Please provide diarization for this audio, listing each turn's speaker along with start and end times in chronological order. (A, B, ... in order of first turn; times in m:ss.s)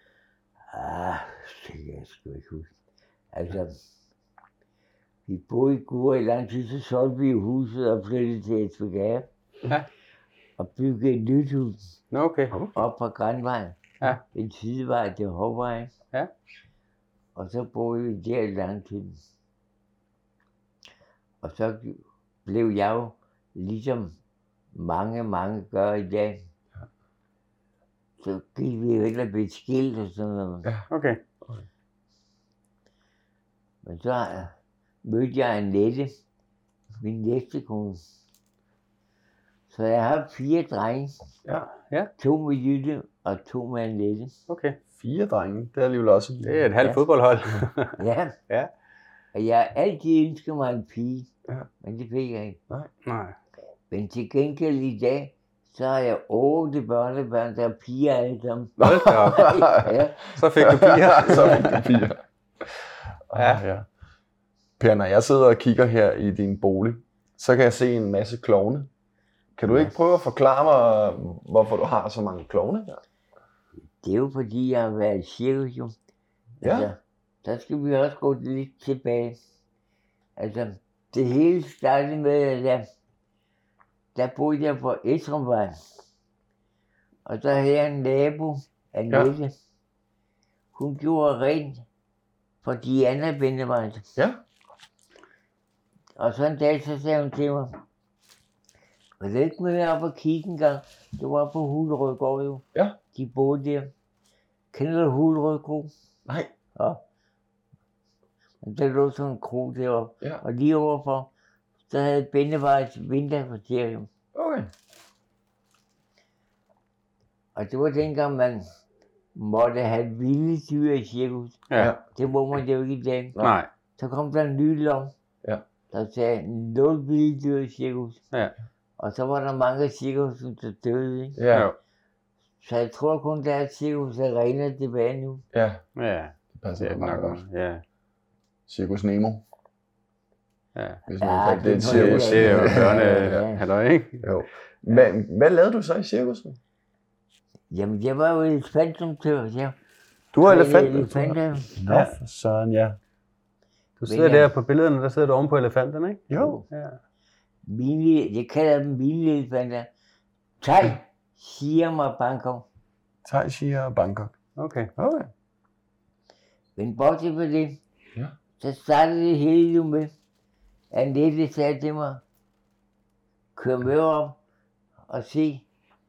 0:00.7-0:02.7 A
0:03.3-0:03.8 A
0:05.3-0:09.3 A
0:10.6-0:11.8 A
0:12.1-0:12.6 B
0:12.5-0:12.8 C
0:12.8-0:15.9 A
0:17.4-0:19.2 A
0:21.4-0:24.2 A
0:24.8-0:26.4 A
0:28.2-0:30.7 A
0:30.9-0:31.2 B
0:31.4-0:31.7 C
0:33.8-0:36.1 A
0:37.0-0:38.0 A
0:39.7-0:41.2 A
0:41.4-0:41.7 C
0:42.2-0:44.4 A
0:44.5-0:44.8 B
0:45.0-0:46.6 C
0:46.4-0:48.7 B
0:48.0-0:48.4 A
0:49.3-0:51.3 A
0:51.8-0:52.6 A
0:53.0-0:53.4 B
0:53.9-1:00.3 A
0:58.8-1:00.0 C
0:58.8-0:59.7 B
1:00.2-1:01.9 B
1:00.6-1:02.7 C
1:03.3-1:03.9 C
1:03.4-1:03.6 B
1:04.8-1:08.9 C
1:09.6-1:13.0 C
1:14.0-1:16.0 A
1:16.6-1:19.4 A
1:16.6-1:16.9 C
1:20.4-1:22.9 A
1:24.2-1:25.8 A
1:27.3-1:29.5 A
1:30.7-1:31.8 A
1:32.6-1:34.1 A
1:34.2-1:34.4 C
1:36.2-1:37.8 A
1:39.2-1:43.9 A
1:44.7-1:45.9 A
1:46.3-1:46.5 C
1:46.8-1:47.0 A
1:48.6-1:51.3 A
1:51.9-1:54.1 A
1:54.4-1:54.7 C
1:57.6-1:58.7 A
1:59.4-2:03.4 A
2:01.7-2:02.0 B
2:01.8-2:02.0 C
2:03.4-2:03.7 B
2:04.0-2:05.1 A
2:05.9-2:08.2 A
2:09.0-2:11.4 A
2:11.4-2:11.7 C
2:12.6-2:15.4 A
2:15.5-2:15.8 C
2:16.0-2:17.8 B
2:16.5-2:17.4 C
2:18.7-2:19.4 C
2:20.8-2:21.0 B
2:21.1-2:23.4 C
2:21.2-2:23.6 A
2:21.8-2:24.3 B
2:24.2-2:26.6 C
2:27.7-2:29.8 A
2:30.3-2:33.0 C
2:30.4-2:31.8 A
2:31.9-2:32.2 B
2:34.0-2:37.0 B
2:34.1-2:34.5 A
2:36.3-2:36.6 C
2:36.4-2:36.7 A
2:37.7-2:39.9 A
2:40.6-2:42.7 A
2:43.2-2:44.4 C
2:44.6-2:44.9 B
2:45.0-2:45.3 C
2:46.8-2:47.8 A
2:48.6-2:50.1 A
2:50.9-2:52.2 A
2:53.6-2:54.4 A
2:55.1-2:55.7 A